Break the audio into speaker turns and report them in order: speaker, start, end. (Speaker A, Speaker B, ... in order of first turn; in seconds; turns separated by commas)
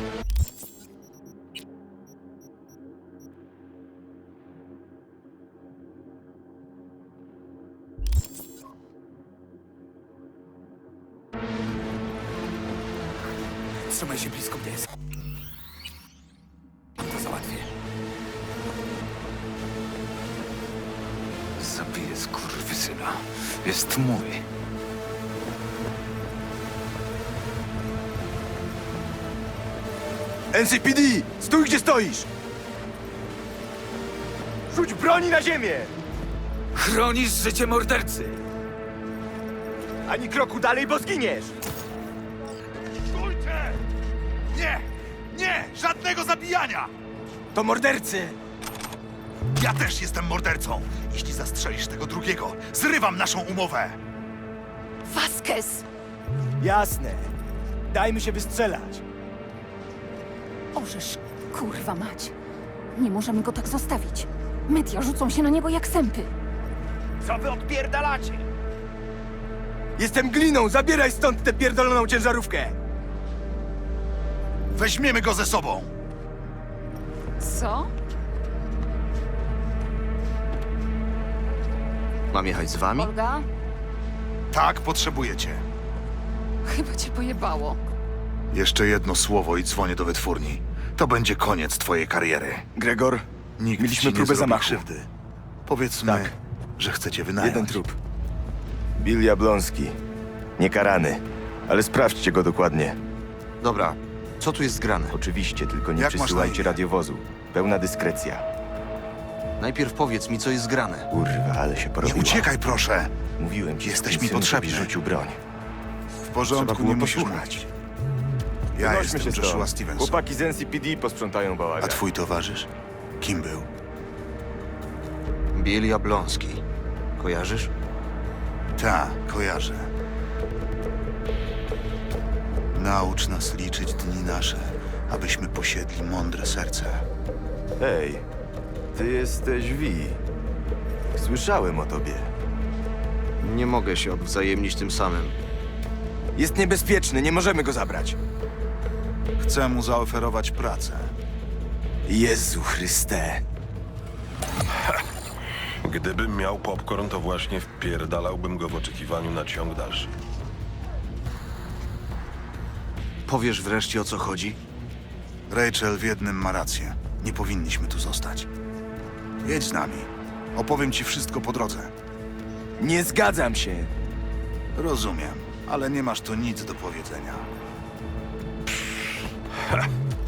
Speaker A: 13.9-14.9, Speaker A: 17.0-17.7, Speaker A: 21.6-24.4, Speaker B: 30.5-32.3, Speaker B: 34.7-35.9, Speaker A: 36.8-38.4, Speaker B: 40.0-41.5, Speaker C: 43.1-43.8, Speaker C: 44.5-46.9, Speaker B: 47.5-48.4, Speaker C: 49.5-54.0, Speaker D: 55.1-55.8, Speaker B: 56.6-57.3, Speaker B: 57.9-59.0, Speaker D: 60.7-62.3, Speaker D: 63.0-66.3, Speaker B: 67.2-68.5, Speaker B: 70.0-72.8, Speaker C: 74.7-75.9, Speaker D: 77.4-77.9, Speaker E: 82.3-83.1, Speaker D: 82.9-83.5, Speaker C: 84.5-85.6, Speaker D: 86.6-87.8, Speaker C: 88.5-92.6, Speaker B: 92.8-93.2, Speaker C: 93.6-95.1, Speaker B: 93.8-94.8, Speaker C: 95.7-97.8, Speaker B: 96.0-96.3, Speaker B: 97.4-98.0, Speaker B: 99.0-100.0, Speaker B: 100.6-103.0, Speaker E: 103.6-105.2, Speaker B: 105.1-108.4, Speaker C: 106.0-106.8, Speaker E: 109.6-111.1, Speaker B: 111.1-112.5, Speaker C: 112.0-113.2, Speaker B: 113.4-115.4, Speaker C: 113.8-114.9, Speaker C: 116.2-117.7, Speaker B: 116.5-117.5, Speaker C: 118.8-120.2, Speaker B: 118.8-122.0, Speaker C: 121.8-122.7, Speaker C: 123.2-123.7, Speaker E: 125.5-126.6, Speaker E: 127.2-127.7, Speaker C: 128.8-129.9, Speaker C: 132.7-137.1, Speaker B: 137.8-138.2, Speaker B: 138.9-140.2, Speaker B: 141.1-142.3, Speaker E: 143.4-145.4, Speaker B: 146.3-148.2, Speaker C: 149.4-151.1, Speaker B: 152.1-153.4, Speaker F: 155.8-160.1, Speaker E: 163.2-164.6, Speaker C: 165.5-168.5, Speaker C: 169.4-171.9, Speaker B: 172.8-173.9, Speaker C: 174.7-177.5, Speaker F: 179.6-179.9